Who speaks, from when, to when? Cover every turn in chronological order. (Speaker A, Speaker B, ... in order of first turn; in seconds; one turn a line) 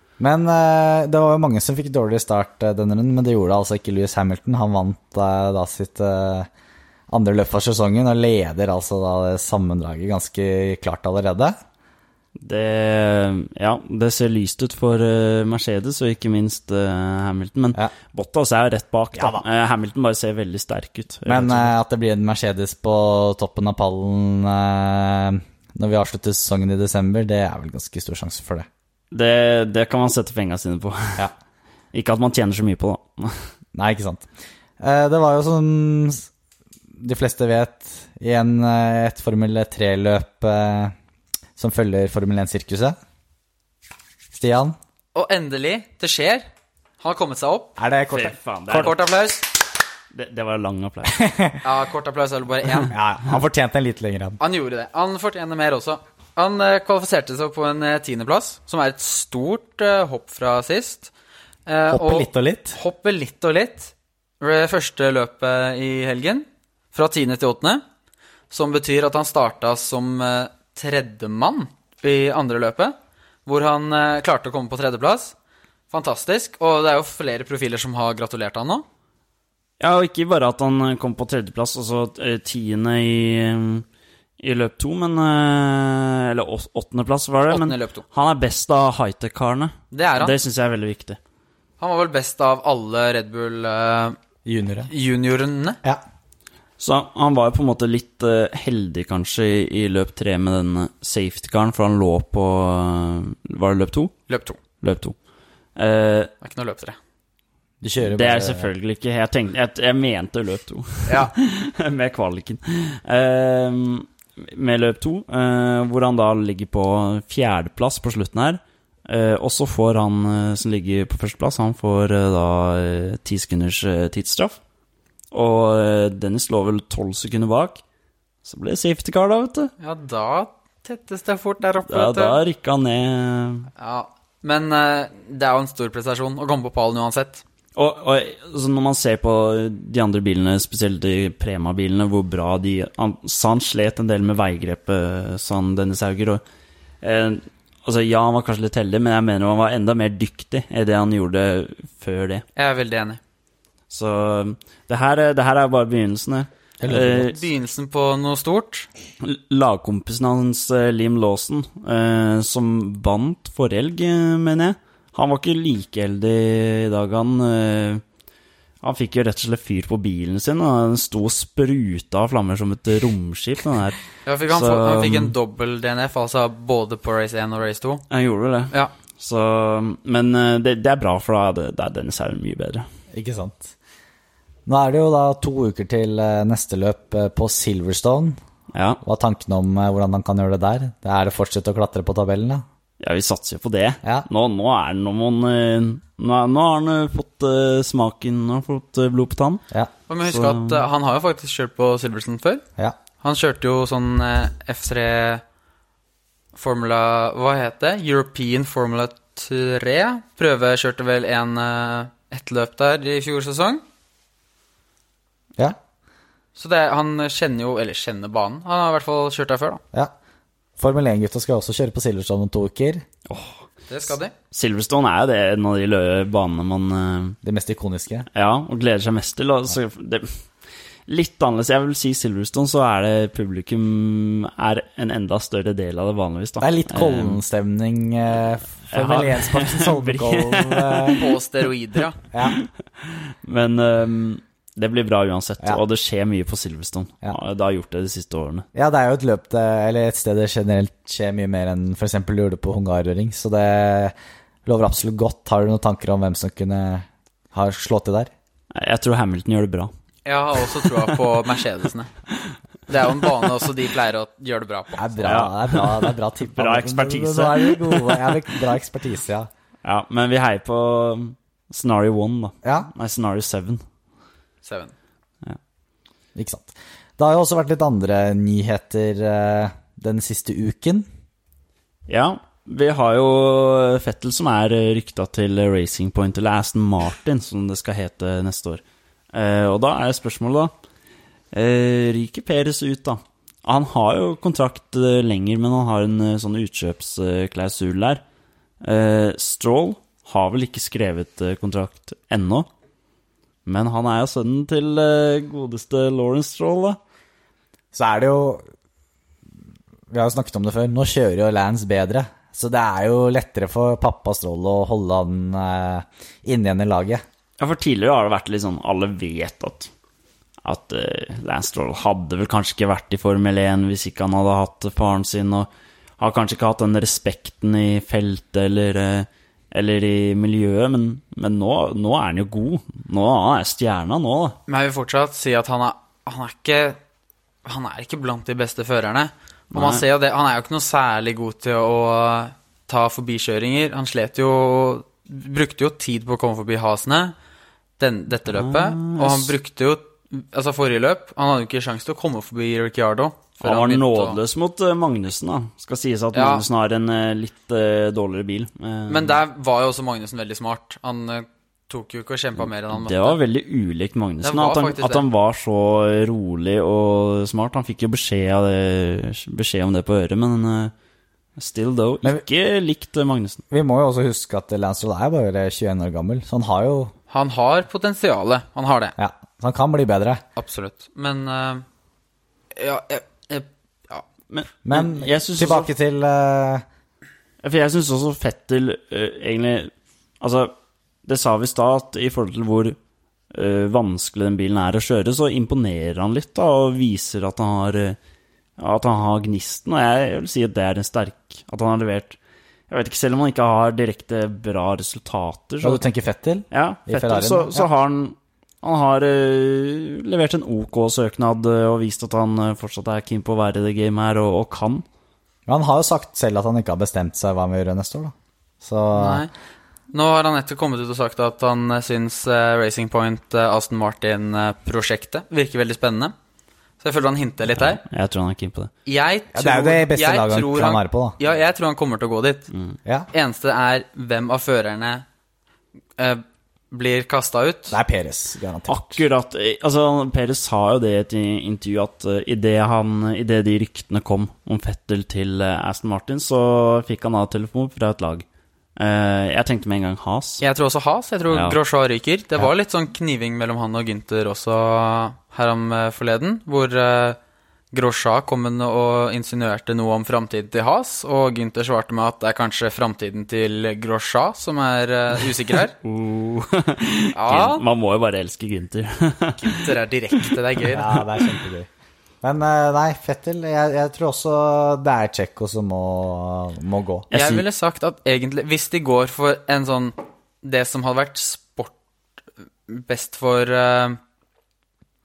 Speaker A: 0.2-6.5
Speaker A: 7.1-11.6
Speaker B: 12.4-21.7
Speaker A: 19.2-19.4
Speaker A: 21.3-28.7
Speaker B: 29.1-31.3
Speaker B: 31.9-33.5
Speaker A: 33.8-34.3
Speaker A: 34.8-36.3
Speaker A: 37.0-40.9
Speaker A: 41.6-43.0
Speaker A: 44.3-44.8
Speaker C: 45.1-46.5
Speaker C: 47.0-47.8
Speaker A: 47.8-49.0
Speaker B: 48.1-49.0
Speaker C: 48.7-49.5
Speaker B: 50.1-51.3
Speaker A: 51.1-51.6
Speaker C: 51.6-53.0
Speaker A: 52.9-54.4
Speaker C: 54.4-61.1
Speaker C: 61.7-67.8
Speaker A: 61.9-62.8
Speaker C: 68.5-73.0
Speaker C: 73.5-75.3
Speaker C: 75.9-78.8
Speaker B: 79.8-83.8
Speaker B: 84.4-91.2
Speaker C: 87.5-88.0
Speaker C: 89.9-90.3
Speaker C: 91.8-94.2
Speaker A: 94.5-94.9
Speaker C: 94.9-95.8
Speaker B: 96.8-104.1
Speaker C: 104.3-104.6
Speaker B: 104.8-105.2
Speaker B: 105.8-106.3
Speaker C: 106.4-107.0
Speaker A: 107.8-108.7
Speaker B: 108.0-124.6
Speaker C: 111.1-111.3
Speaker B: 125.3-127.8
Speaker B: 128.4-129.7
Speaker C: 129.8-132.4
Speaker B: 131.9-133.7
Speaker C: 133.8-137.4
Speaker B: 137.8-146.4
Speaker B: 147.0-152.4
Speaker C: 152.6-153.2
Speaker B: 153.9-157.4
Speaker A: 156.8-157.3
Speaker C: 157.0-158.9
Speaker B: 159.2-168.0
Speaker B: 168.8-174.0
Speaker C: 174.2-178.0
Speaker B: 174.5-175.3
Speaker B: 178.1-182.8
Speaker A: 183.1-183.7
Speaker A: 184.7-188.4
Speaker B: 188.7-189.0
Speaker A: 189.0-192.6
Speaker B: 193.0-199.6
Speaker C: 200.1-202.6
Speaker B: 200.2-200.8
Speaker C: 203.2-205.4
Speaker C: 206.6-213.8
Speaker C: 216.6-219.8
Speaker A: 220.8-223.1
Speaker B: 223.3-223.7
Speaker C: 223.9-224.3
Speaker B: 224.5-227.4
Speaker A: 227.4-228.3
Speaker B: 228.3-230.3
Speaker B: 231.1-237.4
Speaker A: 236.6-241.2
Speaker B: 238.9-241.3
Speaker C: 241.2-242.2
Speaker B: 242.4-248.7
Speaker A: 248.8-254.1
Speaker A: 254.7-258.3
Speaker B: 258.7-259.9
Speaker C: 260.3-262.1
Speaker B: 260.7-261.2
Speaker C: 262.9-265.1
Speaker B: 263.2-263.5
Speaker A: 265.0-269.5
Speaker B: 265.2-268.4
Speaker B: 269.8-273.8
Speaker A: 272.6-272.9
Speaker C: 274.6-274.9
Speaker A: 276.4-281.1
Speaker B: 282.1-290.7
Speaker B: 291.5-298.2
Speaker B: 298.8-302.7
Speaker B: 303.7-307.0
Speaker A: 307.9-308.6
Speaker A: 310.1-317.2
Speaker B: 317.6-319.9
Speaker B: 320.6-334.6
Speaker C: 334.7-337.0
Speaker C: 337.6-347.3
Speaker B: 339.7-340.0
Speaker C: 348.0-354.4
Speaker B: 348.5-349.5
Speaker B: 353.6-359.4
Speaker C: 356.3-356.6
Speaker C: 359.1-363.4
Speaker B: 362.6-370.9
Speaker C: 364.4-365.3
Speaker B: 371.6-373.6
Speaker A: 373.7-377.1
Speaker C: 377.3-379.1
Speaker A: 379.2-380.4
Speaker C: 380.6-381.9
Speaker C: 382.7-384.2
Speaker B: 384.5-385.9
Speaker A: 384.9-386.9
Speaker B: 387.6-390.7
Speaker B: 391.3-393.0
Speaker B: 393.5-398.2
Speaker B: 398.8-402.4
Speaker B: 402.9-406.0
Speaker A: 405.8-407.9
Speaker B: 406.7-415.1
Speaker A: 415.7-419.4
Speaker C: 419.1-419.5
Speaker C: 420.1-426.3
Speaker C: 427.0-428.0
Speaker B: 427.8-428.9
Speaker C: 429.1-432.7
Speaker A: 429.5-431.4
Speaker C: 433.3-435.2
Speaker C: 436.2-438.0
Speaker A: 437.9-439.2
Speaker B: 438.9-448.4
Speaker B: 449.0-450.6
Speaker C: 450.6-457.4
Speaker B: 451.5-451.8
Speaker C: 457.9-465.9
Speaker B: 466.0-471.6
Speaker C: 467.3-467.8
Speaker C: 469.6-471.2
Speaker A: 470.9-471.9
Speaker A: 472.4-477.3
Speaker B: 477.3-477.6
Speaker C: 477.3-481.9
Speaker C: 482.9-484.2